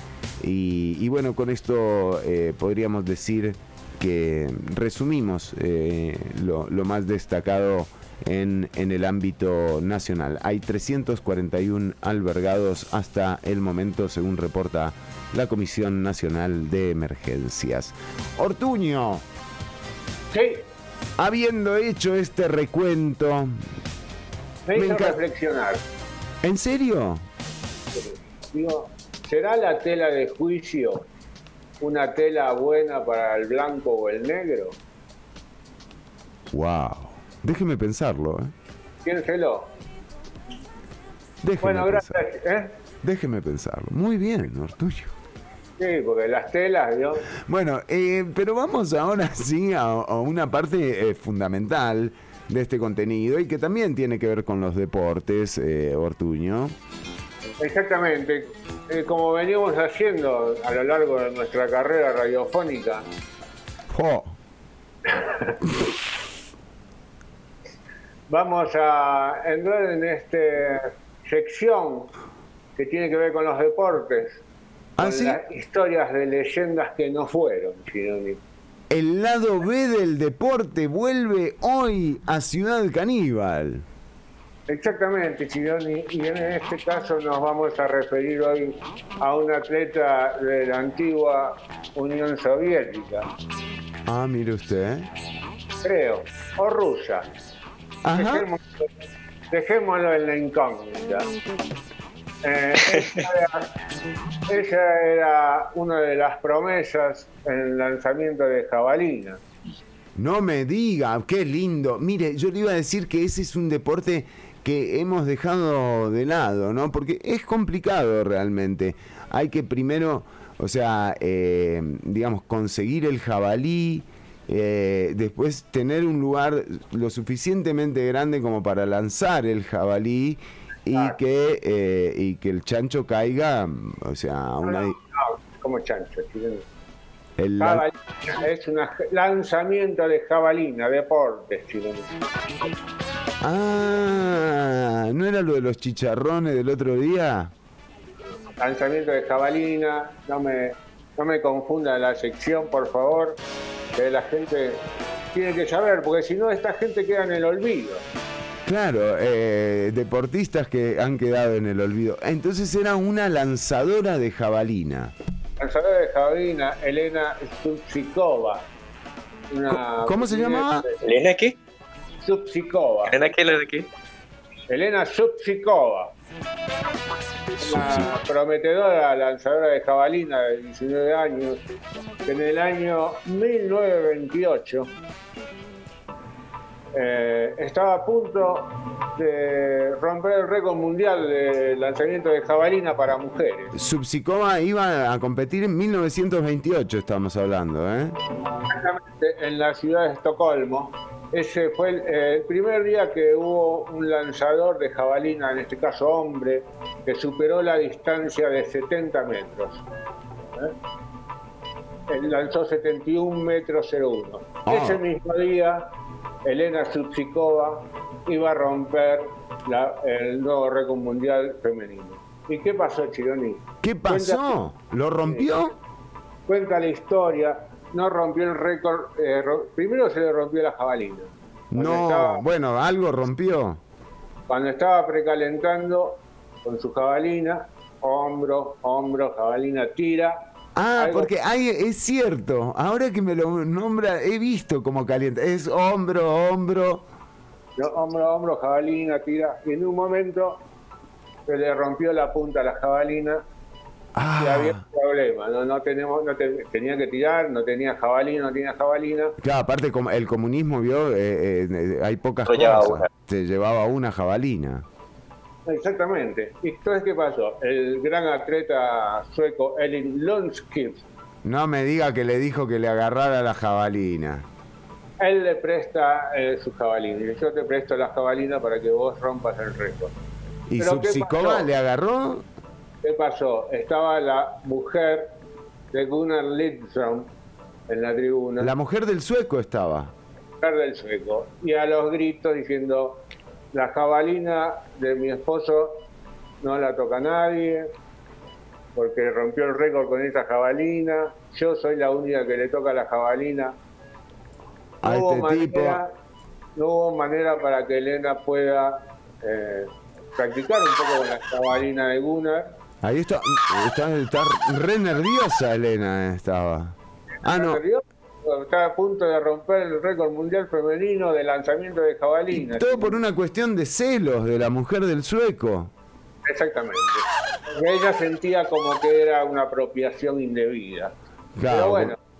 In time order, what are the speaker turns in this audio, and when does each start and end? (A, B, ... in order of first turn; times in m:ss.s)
0:00.4-0:19.2 A
0:20.3-0:20.6 B
0:21.2-0:23.6 A
0:24.7-0:25.8 B
0:24.8-0:25.2 A
0:26.4-0:27.2 A
0:27.9-0:31.0 B
0:31.8-0:34.8 B
0:36.5-0:38.5 A
0:39.0-0:39.7 B
0:41.4-0:42.2 A
0:41.6-0:42.7 B
0:43.0-0:45.1 A
0:45.8-0:47.2 B
0:47.4-0:56.7 A
0:57.6-1:03.0 B
1:03.9-1:04.3 A
1:05.0-1:05.6 B
1:08.3-1:12.1 B
1:12.8-1:14.4 B
1:15.0-1:15.4 A
1:15.0-1:18.4 B
1:18.9-1:23.8 A
1:24.7-1:33.3 B
1:34.1-1:35.1 A
1:35.8-1:37.2 B
1:38.0-1:38.4 A
1:38.1-1:38.8 B
1:39.5-1:41.3 B
1:42.4-1:43.7 B
1:43.0-1:43.2 C
1:44.5-1:49.4 B
1:50.2-2:15.0 A
2:14.6-2:16.6 B
2:17.4-2:17.8 A
2:17.6-2:22.1 B
2:23.4-2:27.5 A
2:28.6-2:33.4 B
2:33.9-2:34.8 B
2:35.3-2:38.0 B
2:38.7-2:45.1 A
2:45.6-2:48.6 B
2:49.5-2:51.0 B
2:49.7-2:50.8 A
2:51.0-2:51.6 C
2:52.2-2:53.1 B
2:53.0-2:53.9 C
2:54.7-2:56.1 B
2:57.6-2:58.1 A
2:57.6-3:01.6 B
3:02.2-3:04.9 B
3:06.9-3:13.7 B
3:13.7-3:18.2 A
3:18.7-3:29.8 B
3:32.1-3:35.9 B
3:34.6-3:35.0 A
3:36.4-3:44.6 B
3:43.8-3:45.7 A
3:46.5-3:52.4 B
3:51.7-3:53.8 A
3:54.5-4:00.4 B
4:00.8-4:07.0 A
4:01.0-4:01.3 B
4:07.8-4:10.6 B
4:11.5-4:13.4 B
4:14.2-4:14.8 A
4:14.4-4:19.4 B
4:19.4-4:24.8 A
4:22.5-4:23.1 C
4:25.6-4:31.0 B
4:31.4-4:34.4 A
4:35.2-4:40.1 B
4:40.7-4:42.4 A
4:40.8-4:41.7 B
4:43.0-4:45.3 B
4:45.9-4:47.3 B
4:47.9-4:48.7 B
4:48.6-4:50.1 A
4:50.6-4:56.0 B
4:56.6-4:57.9 B
4:59.0-5:03.7 B
5:05.0-5:06.0 A
5:05.0-5:06.1 B
5:06.8-5:12.7 B
5:13.0-5:17.8 A
5:17.4-5:23.2 B
5:22.5-5:25.9 A
5:26.4-5:31.1 B
5:31.6-5:32.1 A
5:31.7-5:32.2 B